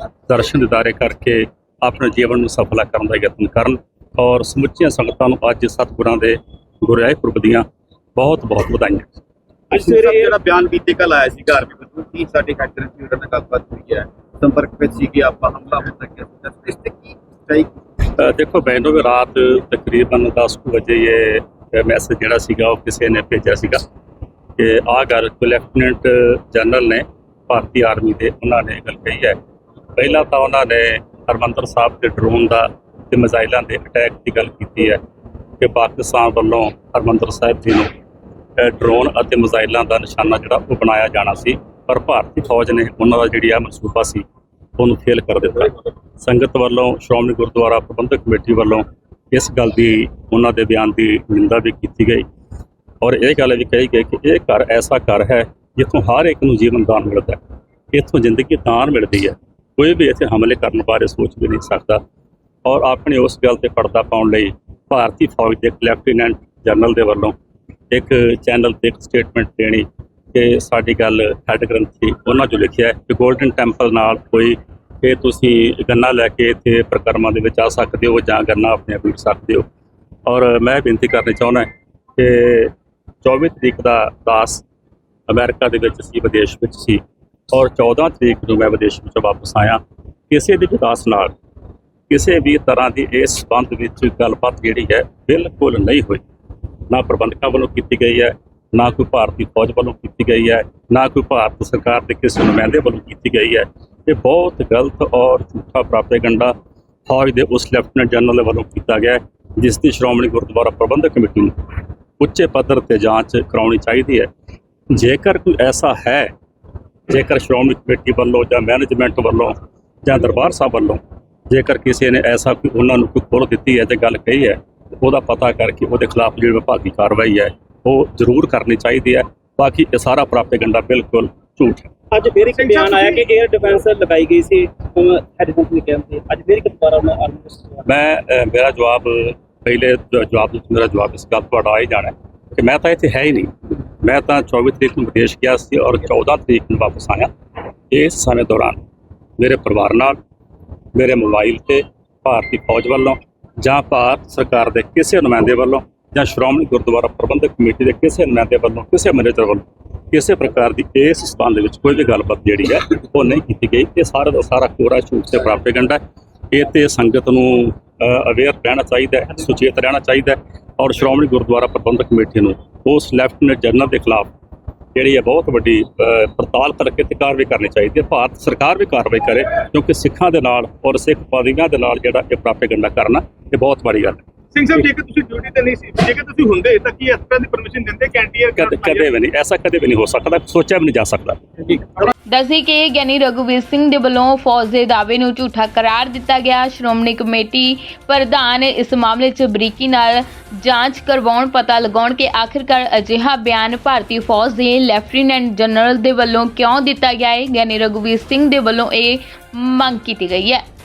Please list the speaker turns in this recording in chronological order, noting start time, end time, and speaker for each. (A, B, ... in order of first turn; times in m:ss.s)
0:00.3-0:07.6 A
0:08.2-0:09.1 A
0:09.7-0:10.3 B
0:09.7-0:17.7 C
0:18.2-0:23.8 A
0:24.6-0:29.4 A
0:30.0-0:35.0 A
0:35.6-0:37.9 A
0:38.6-0:44.2 A
0:44.8-0:52.2 A
0:53.0-0:57.4 A
0:57.9-1:02.0 A
1:02.6-1:07.3 A
1:07.9-1:19.7 A
1:20.2-1:22.7 A
1:23.2-1:24.6 A
1:25.3-1:31.3 A
1:32.1-1:36.2 A
1:36.9-1:46.5 A
1:47.1-1:51.6 A
1:52.2-1:54.3 A
1:54.9-1:56.3 A
1:57.1-2:11.9 A
2:12.1-2:17.8 B
2:12.5-2:13.2 D
2:17.8-2:27.3 A
2:27.9-2:28.8 A
2:29.4-2:30.2 A
2:30.9-2:46.0 A
2:46.5-2:54.3 A
2:54.9-3:04.2 A
3:04.5-3:09.0 D
3:08.6-3:12.1 A
3:12.3-3:30.6 E